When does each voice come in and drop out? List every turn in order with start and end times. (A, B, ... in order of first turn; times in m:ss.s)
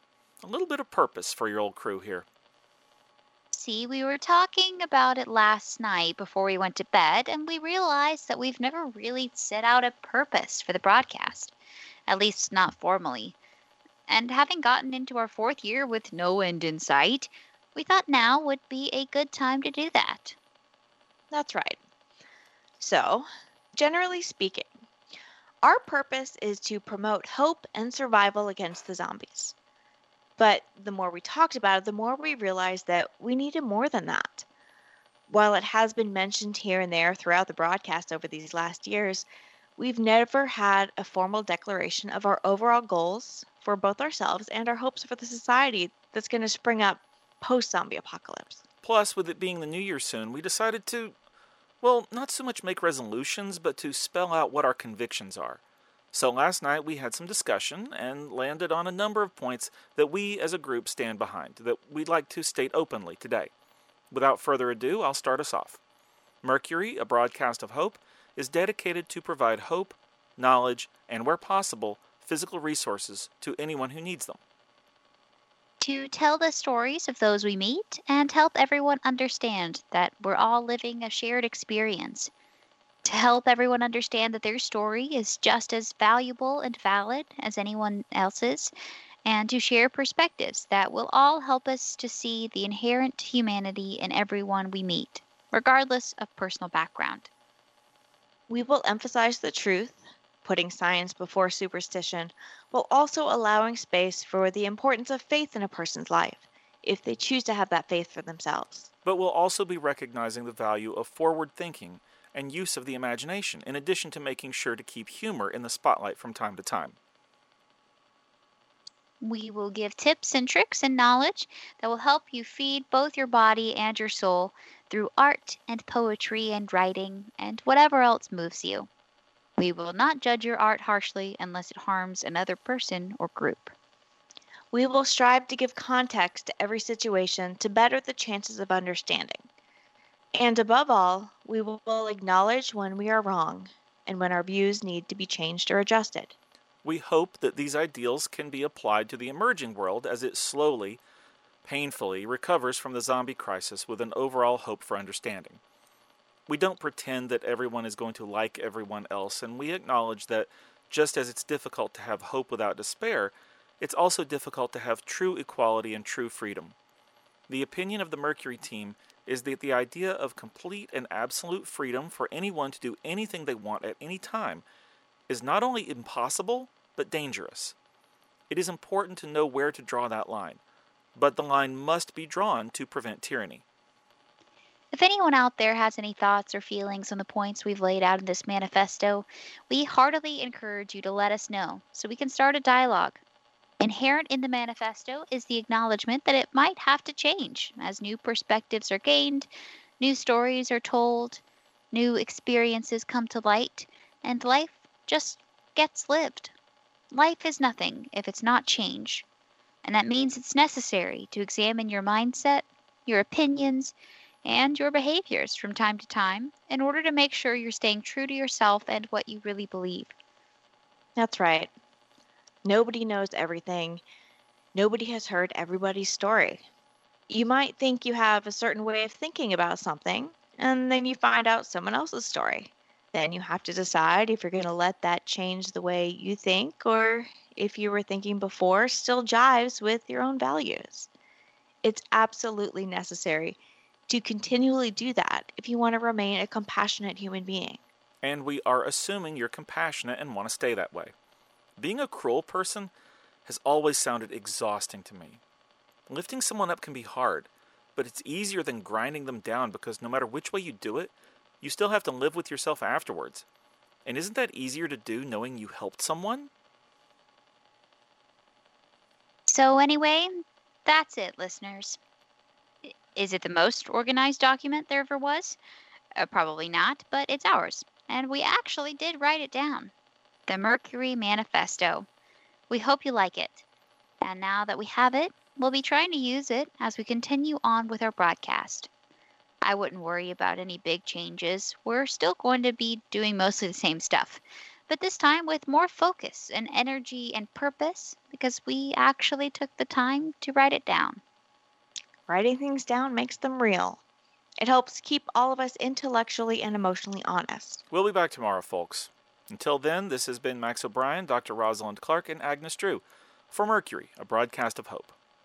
0:00.4-0:02.2 A
0:03.5-0:11.5 B
0:12.1-0:13.3 B
0:14.1-0:20.4 B
0:21.3-0:21.8 C
0:22.8-0:24.7 C
0:25.6-0:29.5 C
0:30.4-0:34.4 C
0:35.3-0:48.6 C
0:48.8-0:51.1 A
0:51.8-0:55.6 A
0:56.1-1:03.5 A
1:04.1-1:05.8 A
1:06.4-1:14.4 A
1:15.8-1:22.3 B
1:23.0-1:28.7 B
1:29.2-1:37.3 B
1:38.5-1:48.9 C
1:49.0-1:57.0 A
1:59.2-2:08.9 B
2:09.6-2:13.7 B
2:14.7-2:19.4 C
2:20.3-2:26.3 C
2:26.8-2:31.0 A
2:31.6-2:35.6 A
2:36.5-2:46.8 A
2:47.5-2:54.6 A
2:55.3-2:57.8 A
2:58.5-3:00.6 A
3:01.1-3:03.6 A
3:04.9-3:13.2 B
3:13.8-3:26.5 B
3:27.1-3:29.2 B
3:29.8-3:40.1 B
3:41.2-3:41.7 C
3:42.6-3:44.0 C
3:44.7-3:46.6 C
3:47.3-4:01.1 C
4:01.8-4:07.8 C
4:08.2-4:11.1 A
4:11.8-4:12.9 A
4:13.4-4:15.4 A
4:16.1-4:23.4 A
4:24.0-4:26.5 A
4:29.4-4:30.3 B
4:30.8-4:32.0 B
4:32.8-4:35.6 B
4:36.2-4:39.9 B
4:40.5-4:42.1 B
4:42.7-4:43.6 B
4:44.2-4:48.9 B
4:49.6-5:01.2 B
5:02.3-5:04.0 C
5:04.6-5:07.8 C
5:07.9-5:15.1 A